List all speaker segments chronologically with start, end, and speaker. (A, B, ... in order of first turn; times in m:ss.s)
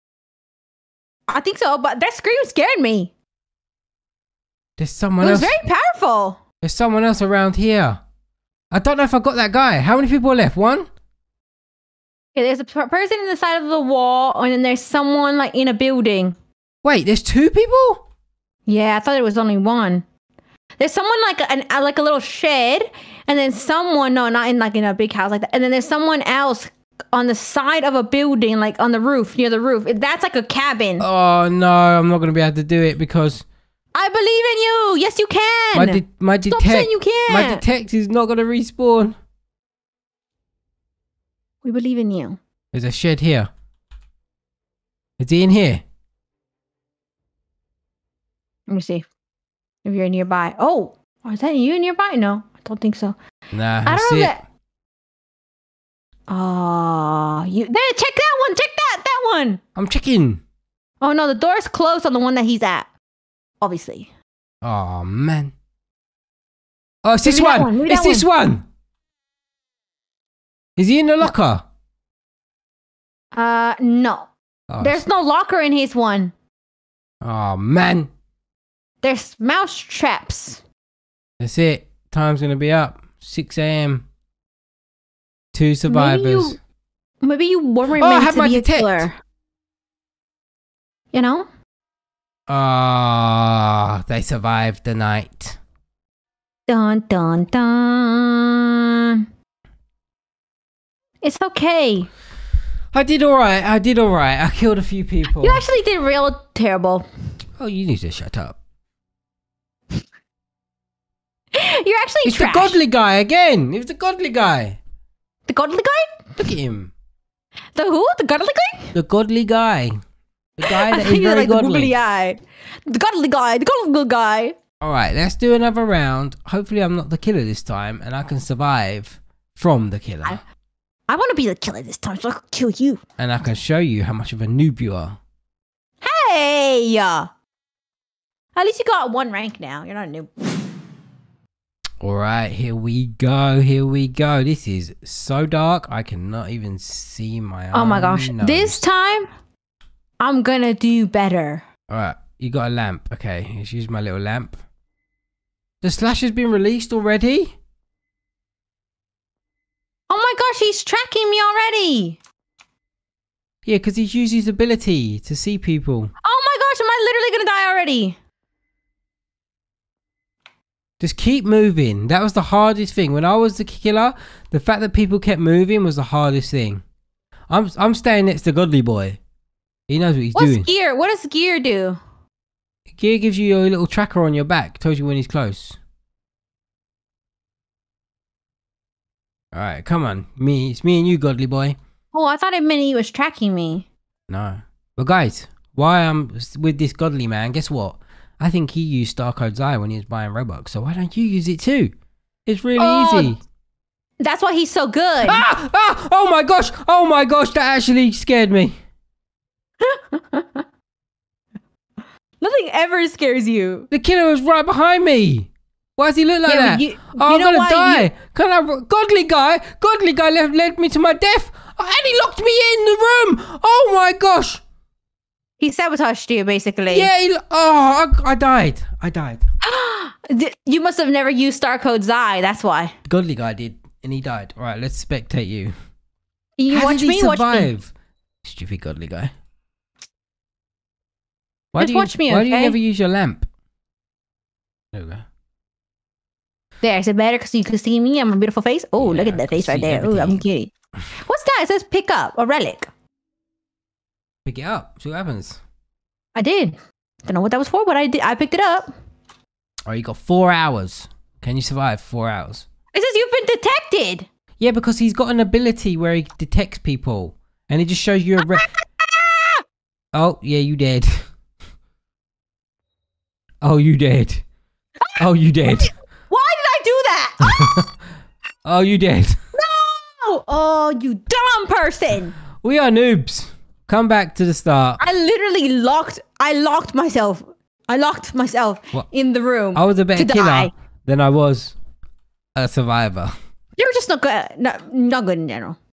0:01.3-0:03.1 A
0:04.8-0:05.5 B
0:05.2-0:06.4 A
0:06.6-0:08.0 B
0:08.7-0:10.8 B
0:12.3-0:16.3 A
0:16.8-0:18.0 B
0:18.6-0:20.0 A
0:20.8-0:31.0 A
0:31.0-0:33.4 B
0:33.9-0:37.6 A
0:35.7-0:39.1 B
0:41.6-0:42.4 A
0:42.7-0:43.5 B
0:45.2-0:45.8 B
0:48.7-0:49.0 A
0:49.8-0:53.2 A
0:53.5-0:54.4 B
0:53.8-0:54.4 A
0:56.3-0:59.6 A
0:59.8-1:00.4 B
1:01.0-1:02.9 A
1:03.6-1:04.1 A
1:04.6-1:05.5 B
1:07.0-1:08.6 B
1:07.2-1:08.3 A
1:10.8-1:11.6 B
1:13.3-1:14.3 A
1:14.7-1:15.0 B
1:14.8-1:16.3 A
1:17.2-1:18.1 B
1:19.0-1:20.6 A
1:21.4-1:24.0 B
1:25.5-1:26.6 B
1:25.9-1:26.6 A
1:27.2-1:29.2 A
1:27.9-1:29.1 B
1:31.1-1:31.4 A
1:32.5-1:35.6 B
1:36.7-1:39.2 A
1:41.2-1:42.1 A
1:42.9-1:45.6 B
1:45.3-1:47.1 A
1:47.6-1:48.6 B
1:51.5-1:52.8 A
1:52.2-1:54.8 B
1:55.5-1:56.4 A
1:56.4-1:56.9 B
1:57.7-1:58.9 A
1:58.9-2:00.0 B
2:00.6-2:02.0 B
2:00.6-2:04.5 A
2:04.8-2:10.4 B
2:11.1-2:13.0 A
2:13.2-2:15.2 B
2:16.0-2:17.3 A
2:18.5-2:20.3 A
2:22.0-2:28.8 B
2:27.7-2:29.3 A
2:30.2-2:31.6 A
2:31.9-2:34.6 B
2:35.8-2:37.5 B
2:40.1-2:42.2 A
2:43.6-2:46.1 B
2:46.2-2:48.2 A
2:51.0-2:56.8 B
2:57.5-2:59.2 B
2:59.9-3:00.7 B
3:00.3-3:02.0 A
3:02.9-3:05.8 B
3:09.5-3:11.8 B
3:12.1-3:13.9 A
3:14.3-3:21.9 B
3:22.4-3:23.4 B
3:22.8-3:23.4 A
3:24.2-3:25.4 A
3:25.2-3:28.7 B
3:29.8-3:30.6 A
3:32.4-3:33.9 A
3:33.9-3:44.6 B
3:36.4-3:38.1 A
3:45.6-3:47.1 A
3:46.9-3:49.4 B
3:49.6-3:52.9 A
3:53.1-3:55.7 B
3:56.6-3:57.7 A
3:56.7-3:57.9 B
3:58.4-3:59.3 B
4:01.7-4:03.4 B
4:01.8-4:02.8 A
4:04.9-4:05.2 B
4:06.8-4:12.9 A
4:09.0-4:10.4 B
4:14.4-4:15.6 B
4:16.3-4:18.9 A
4:19.9-4:22.6 B
4:22.9-4:24.3 A
4:24.6-4:28.6 B
4:28.5-4:29.6 A
4:30.1-4:31.2 B
4:33.6-4:34.4 B
4:35.1-4:37.7 A
4:35.2-4:35.9 B
4:37.4-4:37.8 B
4:38.6-4:39.4 B
4:39.5-4:42.4 A
4:42.6-4:45.0 B
4:45.0-4:50.7 A
4:49.7-4:51.8 B
4:52.5-4:53.3 B
4:53.8-4:55.8 A